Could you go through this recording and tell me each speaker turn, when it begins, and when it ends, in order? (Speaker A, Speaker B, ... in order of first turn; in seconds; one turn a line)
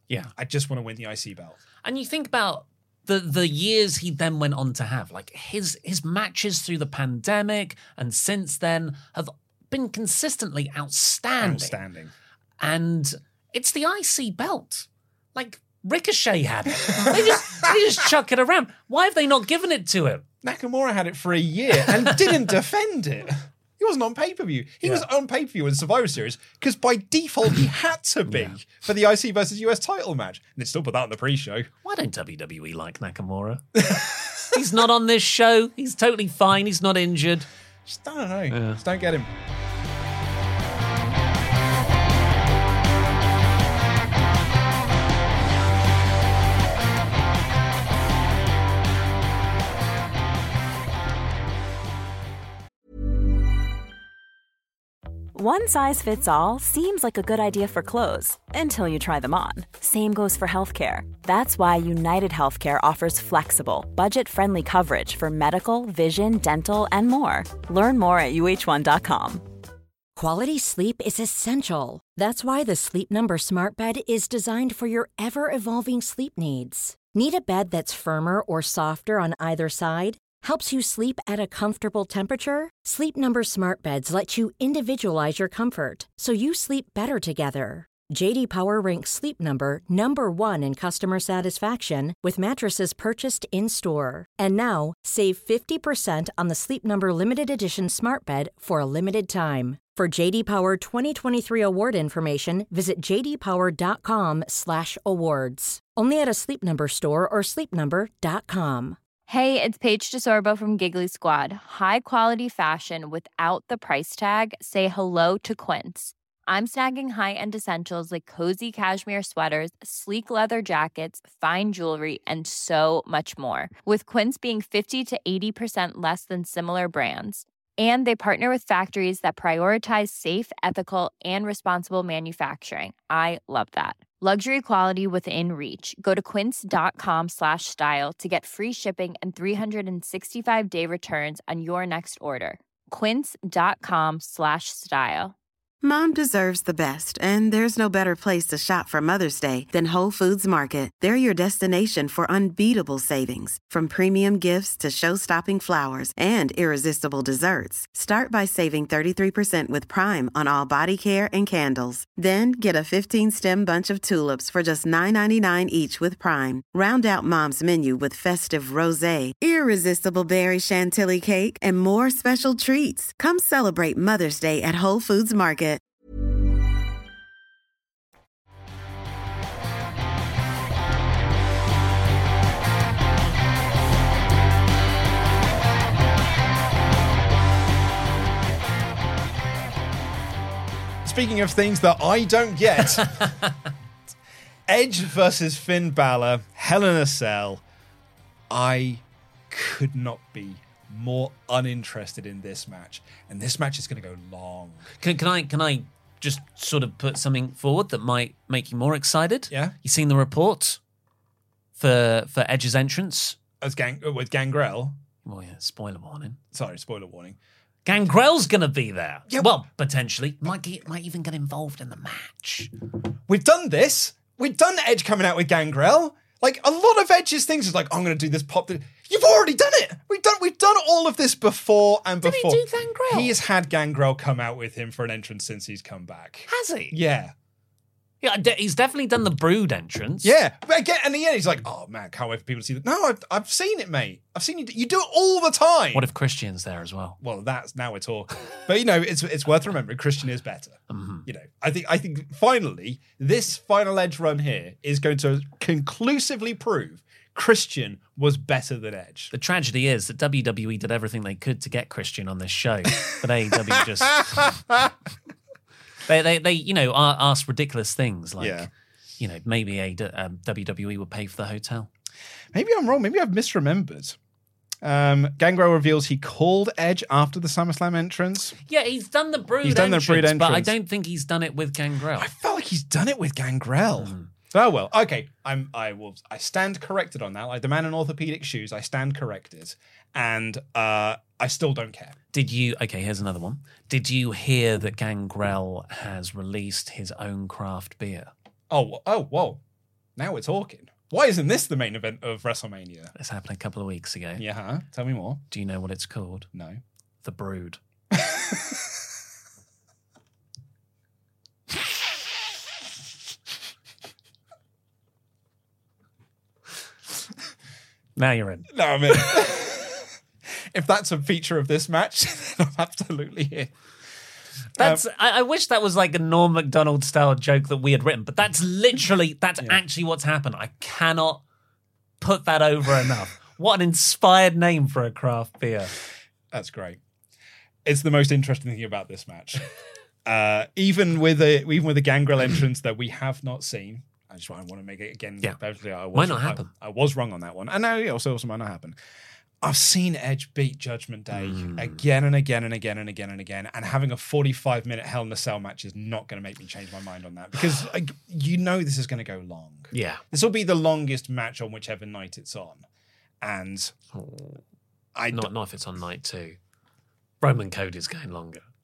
Speaker A: 0.3-1.6
Speaker B: 1.8-11.8
Speaker A: 11.4-12.1
Speaker B: 12.6-20.2
Speaker A: 16.9-17.4
Speaker A: 20.4-31.7
Speaker B: 22.0-22.4
Speaker B: 28.3-28.6
Speaker B: 31.8-33.9
Speaker A: 33.8-34.1
Speaker B: 34.5-37.5
Speaker A: 37.9-39.3
Speaker B: 38.5-38.8
Speaker C: 55.3-69.4
Speaker D: 70.2-109.0
Speaker E: 109.3-145.3
Speaker F: 145.8-175.8
Speaker A: 191.0-193.2
Speaker A: 194.7-197.6
Speaker A: 198.5-204.9
Speaker B: 205.0-210.8
Speaker B: 211.8-213.4
Speaker A: 213.6-215.0
Speaker B: 215.2-216.4
Speaker A: 216.5-217.4
Speaker B: 217.8-222.7
Speaker A: 223.3-237.3
Speaker B: 232.2-233.3
Speaker B: 236.5-237.0
Speaker B: 238.2-240.3
Speaker A: 240.2-246.1
Speaker B: 245.9-247.2
Speaker A: 247.2-259.3
Speaker B: 250.9-251.3
Speaker B: 259.3-264.6
Speaker A: 263.7-264.9
Speaker B: 266.1-271.9
Speaker A: 268.4-268.7
Speaker A: 272.5-274.2
Speaker A: 274.8-278.6
Speaker B: 278.7-282.3
Speaker A: 279.6-280.7
Speaker A: 282.1-292.2
Speaker B: 284.0-284.3
Speaker B: 292.3-298.3
Speaker A: 298.7-299.6
Speaker A: 300.2-303.1
Speaker B: 303.1-304.4
Speaker A: 304.4-305.4
Speaker B: 305.5-306.5
Speaker A: 306.5-306.8
Speaker B: 307.2-307.8
Speaker A: 308.1-309.0
Speaker B: 318.1-319.3
Speaker A: 318.7-320.1
Speaker A: 320.7-323.7
Speaker A: 324.8-325.0
Speaker B: 324.8-331.4
Speaker B: 332.2-335.9
Speaker A: 336.5-337.0
Speaker A: 337.8-339.7
Speaker A: 340.2-349.0
Speaker B: 346.1-346.7
Speaker A: 349.6-362.9
Speaker B: 351.3-352.0
Speaker B: 359.9-360.2
Speaker A: 363.4-363.9
Speaker B: 364.1-364.6
Speaker A: 365.1-365.5
Speaker B: 365.3-366.6
Speaker B: 367.4-368.6